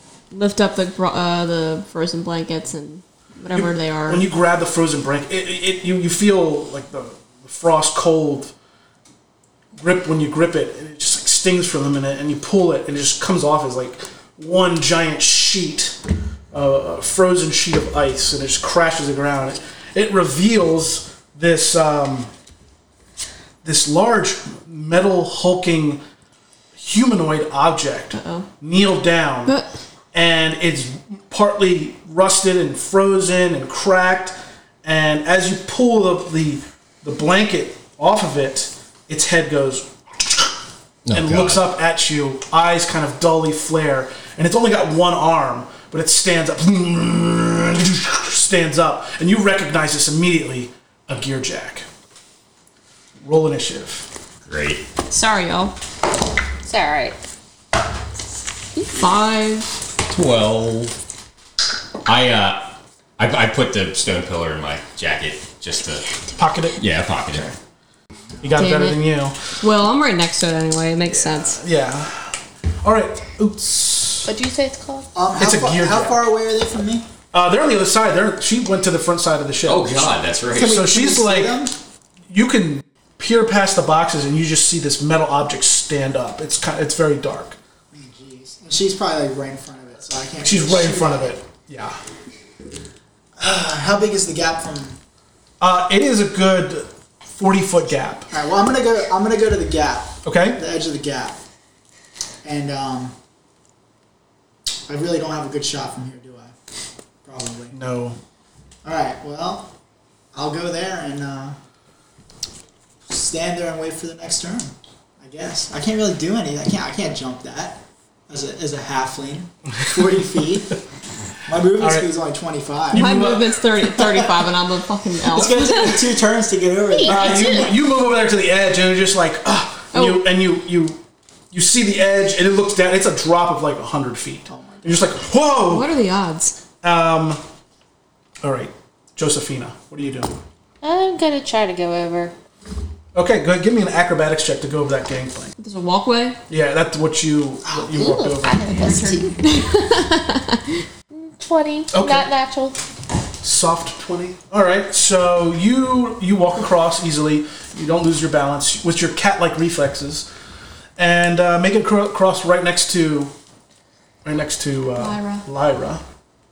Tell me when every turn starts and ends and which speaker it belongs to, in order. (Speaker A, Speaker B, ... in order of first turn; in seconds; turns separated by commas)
Speaker A: 0.3-4.2, Speaker B: 3.5-8.5, Speaker B: 9.8-16.0, Speaker B: 16.5-22.3, Speaker B: 23.6-26.0, Speaker B: 26.8-29.6, Speaker A: 28.1-28.5, Speaker A: 29.5-29.7, Speaker B: 30.1-40.6, Speaker C: 41.0-41.6, Speaker B: 41.1-51.9, Speaker B: 53.2-54.1, Speaker C: 54.5-54.9, Speaker A: 55.1-55.7, Speaker D: 56.6-57.1, Speaker A: 58.8-59.7, Speaker C: 60.1-60.9, Speaker C: 62.0-66.1, Speaker B: 66.4-67.6, Speaker C: 66.8-67.5, Speaker B: 68.4-69.5, Speaker A: 68.6-69.1, Speaker A: 69.6-71.6, Speaker B: 71.1-74.3, Speaker D: 74.2-75.1, Speaker E: 75.2-77.1, Speaker B: 75.4-76.2, Speaker B: 77.3-81.6, Speaker C: 79.6-80.8, Speaker E: 80.5-81.8, Speaker B: 82.3-87.6, Speaker E: 87.9-91.4, Speaker B: 90.4-92.0, Speaker E: 93.4-95.0, Speaker B: 95.6-98.3, Speaker E: 98.3-101.4, Speaker B: 100.2-100.6, Speaker E: 102.4-103.1, Speaker E: 104.9-106.5, Speaker E: 107.2-107.8, Speaker B: 107.7-108.2, Speaker E: 108.8-109.7, Speaker E: 110.3-111.6, Speaker E: 113.1-120.8, Speaker E: 121.5-123.2, Speaker B: 121.8-122.1, Speaker B: 122.9-123.6, Speaker A: 122.9-126.1, Speaker E: 125.3-127.5, Speaker D: 126.9-127.8, Speaker B: 127.0-131.0, Speaker A: 129.9-130.2, Speaker B: 131.5-135.9, Speaker E: 134.5-135.1, Speaker A: 135.7-136.6, Speaker B: 136.8-137.4, Speaker B: 138.4-140.4, Speaker D: 140.8-142.3, Speaker B: 143.1-145.5, Speaker A: 145.6-146.4, Speaker B: 146.5-148.6, Speaker D: 147.7-149.3, Speaker A: 148.8-150.8, Speaker D: 151.1-152.8, Speaker B: 151.9-152.3, Speaker B: 153.4-160.3, Speaker B: 161.0-163.3, Speaker B: 164.2-166.0, Speaker A: 165.0-165.4